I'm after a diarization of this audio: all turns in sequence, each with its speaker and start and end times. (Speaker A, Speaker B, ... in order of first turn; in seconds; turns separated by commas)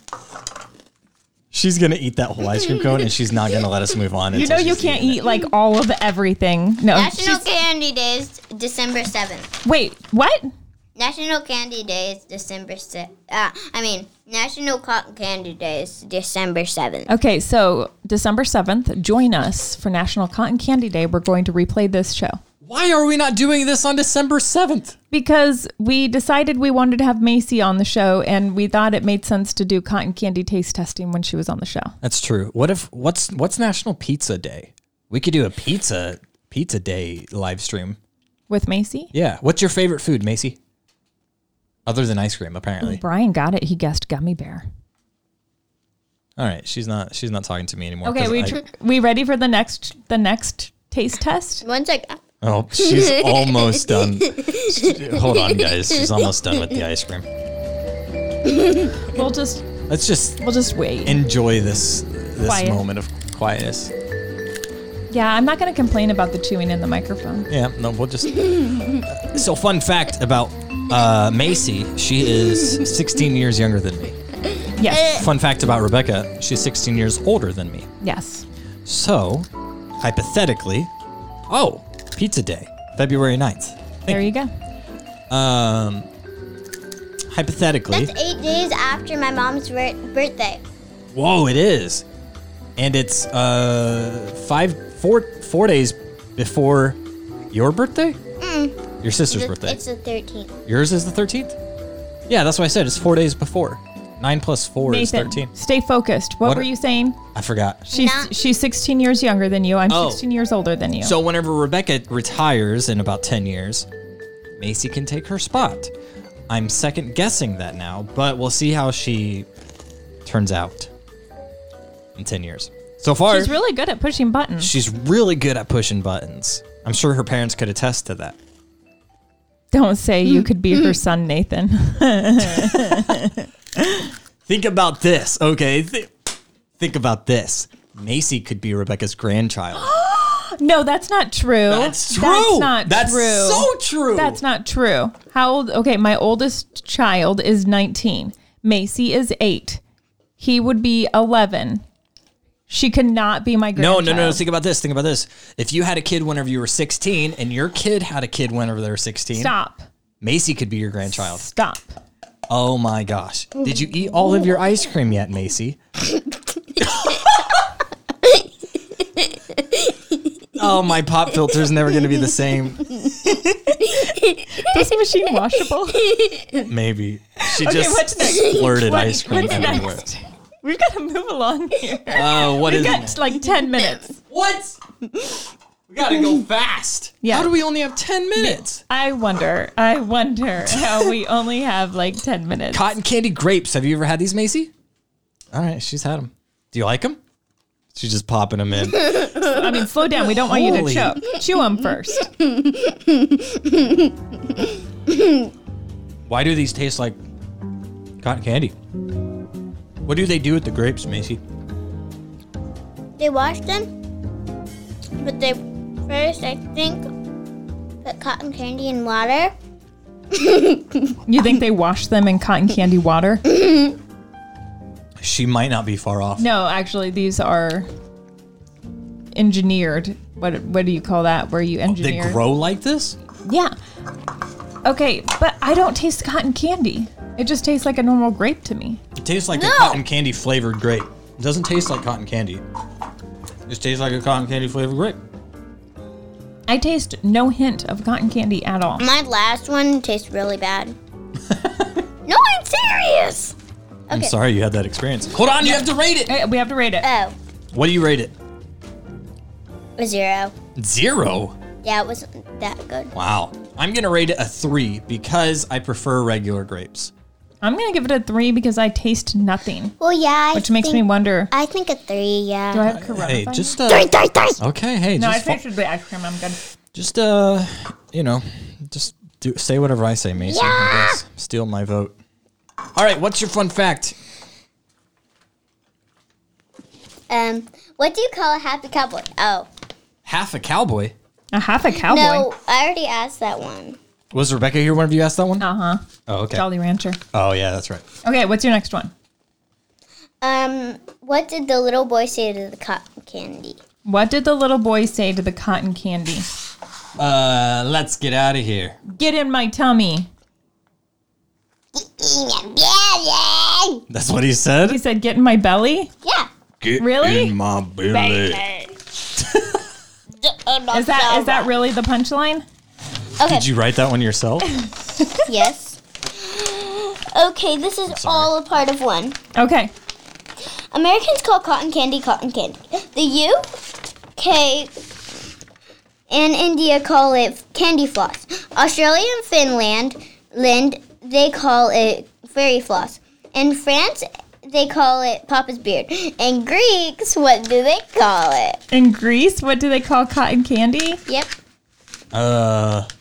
Speaker A: 1.5-5.2, Speaker B: 4.3-7.5, Speaker C: 6.9-9.5, Speaker B: 9.6-10.5, Speaker C: 11.0-17.1, Speaker B: 17.1-22.4, Speaker A: 22.6-25.0, Speaker B: 25.1-32.0, Speaker A: 32.0-38.0, Speaker B: 38.5-39.1, Speaker A: 39.1-40.6, Speaker A: 41.9-43.0, Speaker B: 42.8-44.6, Speaker A: 46.4-48.6, Speaker B: 48.0-51.6, Speaker C: 51.6-52.2, Speaker A: 52.4-57.3, Speaker C: 52.8-56.8, Speaker C: 58.5-58.9, Speaker B: 59.1-59.7, Speaker A: 59.9-60.4, Speaker B: 60.4-61.2, Speaker A: 61.0-63.9, Speaker B: 62.4-62.8, Speaker B: 65.1-67.5, Speaker A: 67.5-74.2, Speaker B: 74.8-75.2, Speaker C: 74.9-75.2, Speaker A: 75.0-77.9, Speaker B: 78.0-78.5, Speaker A: 78.9-79.5, Speaker A: 80.0-80.9, Speaker A: 81.5-84.3, Speaker B: 84.1-84.5, Speaker A: 85.3-86.1, Speaker A: 87.3-88.1, Speaker C: 87.9-90.6, Speaker A: 91.1-92.0, Speaker A: 92.8-97.0, Speaker A: 97.5-98.2, Speaker C: 98.4-100.6, Speaker A: 99.0-99.8, Speaker A: 100.7-101.6, Speaker A: 102.3-105.5, Speaker B: 104.8-107.2, Speaker A: 106.4-106.7, Speaker A: 107.3-107.8, Speaker B: 107.9-111.2, Speaker C: 107.9-108.3, Speaker A: 109.9-110.2, Speaker A: 111.0-113.9, Speaker A: 114.6-115.9, Speaker A: 116.5-119.5, Speaker A: 120.2-120.9, Speaker A: 122.2-123.5, Speaker B: 123.3-124.7, Speaker A: 124.6-128.4, Speaker B: 129.7-134.0, Speaker A: 132.5-133.1, Speaker A: 134.5-136.1, Speaker A: 136.8-139.9, Speaker B: 139.8-149.8, Speaker A: 141.7-144.4, Speaker B: 150.4-151.8, Speaker B: 152.7-154.4, Speaker A: 153.8-159.5, Speaker B: 159.3-159.8, Speaker A: 160.2-161.5, Speaker B: 161.1-162.0, Speaker A: 162.5-165.8, Speaker A: 166.8-167.2, Speaker C: 169.2-169.9, Speaker A: 170.6-173.0, Speaker B: 173.2-176.2, Speaker C: 176.2-176.6, Speaker A: 176.7-180.0, Speaker B: 177.4-184.2, Speaker A: 182.1-183.2, Speaker A: 184.3-184.8, Speaker A: 185.9-188.8, Speaker B: 187.2-187.5, Speaker B: 188.4-192.8, Speaker A: 192.7-194.7, Speaker A: 195.5-197.2, Speaker A: 197.9-199.4, Speaker B: 199.4-202.3, Speaker A: 200.3-201.2, Speaker C: 202.4-204.1, Speaker C: 204.6-205.5, Speaker A: 206.3-207.2, Speaker A: 208.2-208.8, Speaker A: 210.1-211.4, Speaker C: 213.2-213.9, Speaker C: 215.2-217.0, Speaker C: 218.0-219.5, Speaker C: 220.3-221.2, Speaker B: 221.3-223.4, Speaker C: 223.5-224.0, Speaker A: 225.2-226.5, Speaker B: 226.4-227.9, Speaker B: 229.3-232.4, Speaker A: 231.9-233.2, Speaker B: 233.5-233.7, Speaker B: 234.8-239.0, Speaker A: 239.2-242.6, Speaker C: 239.5-240.0, Speaker A: 243.7-245.2, Speaker B: 246.7-249.0, Speaker C: 249.0-250.9, Speaker A: 251.4-252.1, Speaker C: 252.3-253.6, Speaker C: 254.1-254.3, Speaker A: 254.1-256.3, Speaker B: 255.6-257.1, Speaker C: 257.0-257.4, Speaker A: 257.7-258.4, Speaker C: 260.0-260.5, Speaker A: 260.8-261.6, Speaker C: 261.8-263.1, Speaker A: 263.1-267.1, Speaker B: 267.6-269.9, Speaker C: 270.0-272.9, Speaker B: 270.5-271.5, Speaker B: 272.7-273.8, Speaker A: 272.9-275.6, Speaker C: 273.9-274.6, Speaker B: 275.2-276.6, Speaker A: 276.9-282.2, Speaker C: 280.4-281.2, Speaker A: 282.9-284.1, Speaker C: 287.3-289.7, Speaker A: 290.2-291.1, Speaker B: 291.5-292.5, Speaker C: 291.9-294.0, Speaker A: 294.3-295.7, Speaker B: 295.6-297.2, Speaker A: 296.3-296.6, Speaker A: 297.3-298.0, Speaker B: 298.2-299.1, Speaker C: 300.4-303.8, Speaker B: 304.1-306.5, Speaker A: 307.2-309.0, Speaker B: 309.1-310.3, Speaker C: 311.9-314.0, Speaker A: 314.1-315.0, Speaker B: 314.9-316.1, Speaker C: 316.2-316.5, Speaker A: 316.8-318.6, Speaker B: 317.0-317.5, Speaker C: 318.1-318.9, Speaker A: 319.4-319.8, Speaker C: 320.4-321.7, Speaker B: 320.9-322.6, Speaker C: 323.4-323.7, Speaker A: 323.4-324.7, Speaker B: 324.9-325.4, Speaker C: 325.4-329.4, Speaker A: 328.1-328.5, Speaker B: 329.6-329.9, Speaker C: 330.9-333.6, Speaker C: 334.4-335.4, Speaker C: 336.3-348.8, Speaker B: 348.9-351.2, Speaker C: 351.3-351.5, Speaker A: 352.3-353.1